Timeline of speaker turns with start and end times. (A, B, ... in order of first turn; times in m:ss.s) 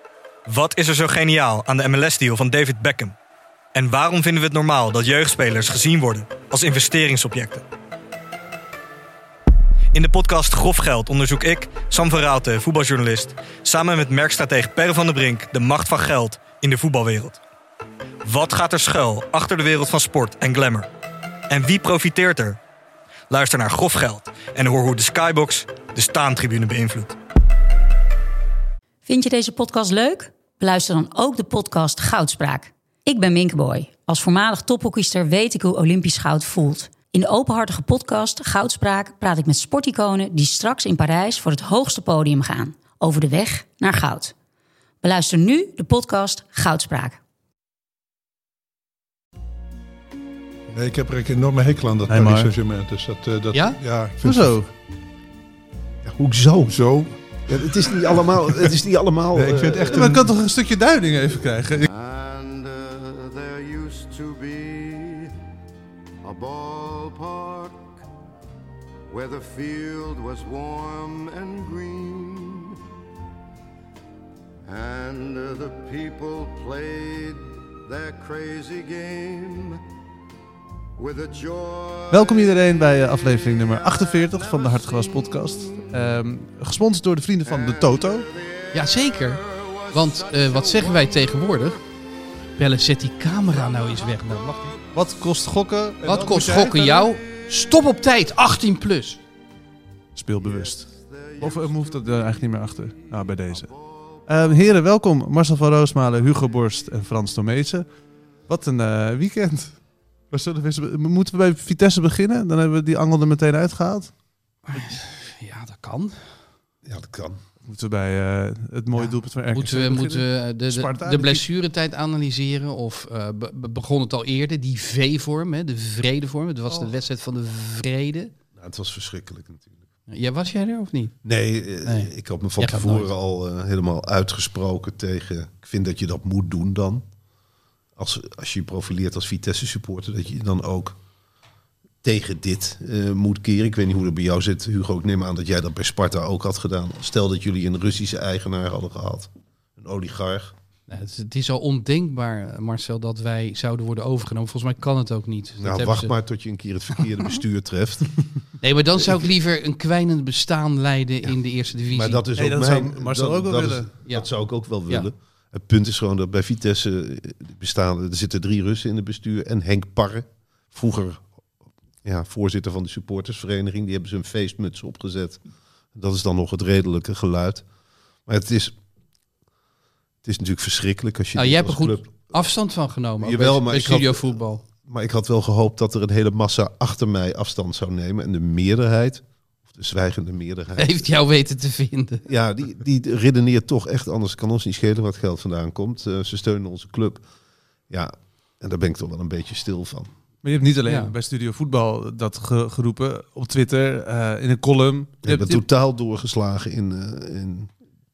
0:00.5-0:03.2 A
0:03.7-0:07.6 A
0:09.9-0:17.4 A
0:18.2-0:20.9 A
0:21.5-0:22.6 A
0:23.3-0:27.2 A
0:29.1-0:44.3 B
0:45.0-0:47.2 B
0:50.7-0:54.6 C
0:52.1-0:52.5 D
0:54.2-0:54.7 D
0:56.0-0:56.8 E
0:56.7-0:58.7 C
0:57.5-1:00.1 E
0:59.3-1:00.2 C
0:59.9-1:01.9 D
1:01.9-1:05.3 F
1:06.2-1:08.0 F
1:09.1-1:12.8 F
1:14.7-1:19.8 F
1:21.0-1:22.4 F
1:22.1-1:28.3 D
1:23.8-1:25.9 F
1:27.4-1:31.7 F
1:28.7-1:31.8 G
1:32.6-1:34.8 G
1:33.6-1:34.4 F
1:34.9-1:37.1 D
1:36.0-1:39.2 G
1:40.2-1:43.7 D
1:40.4-1:44.2 F
1:44.3-1:47.9 D
1:48.5-1:54.1 D
1:54.7-1:56.2 G
1:56.8-1:57.4 E
1:57.6-2:01.4 D
1:59.0-2:08.3 G
2:08.6-2:09.8 E
2:10.1-2:11.2 G
2:11.2-2:17.0 E
2:11.8-2:13.1 G
2:18.0-2:21.0 E
2:22.0-2:30.5 E
2:30.9-2:36.1 G
2:35.6-2:38.2 E
2:38.6-2:42.2 G
2:41.9-2:51.2 E
2:42.4-2:43.9 D
2:52.0-2:55.4 E
2:55.9-2:57.6 E
2:58.3-2:58.8 E
3:00.2-3:02.3 E
3:01.4-3:04.6 G
3:03.2-3:11.0 E
3:10.8-3:12.3 G
3:12.3-3:17.2 E
3:17.9-3:20.1 E
3:20.4-3:25.6 D
3:20.9-3:21.1 G
3:25.2-3:27.7 E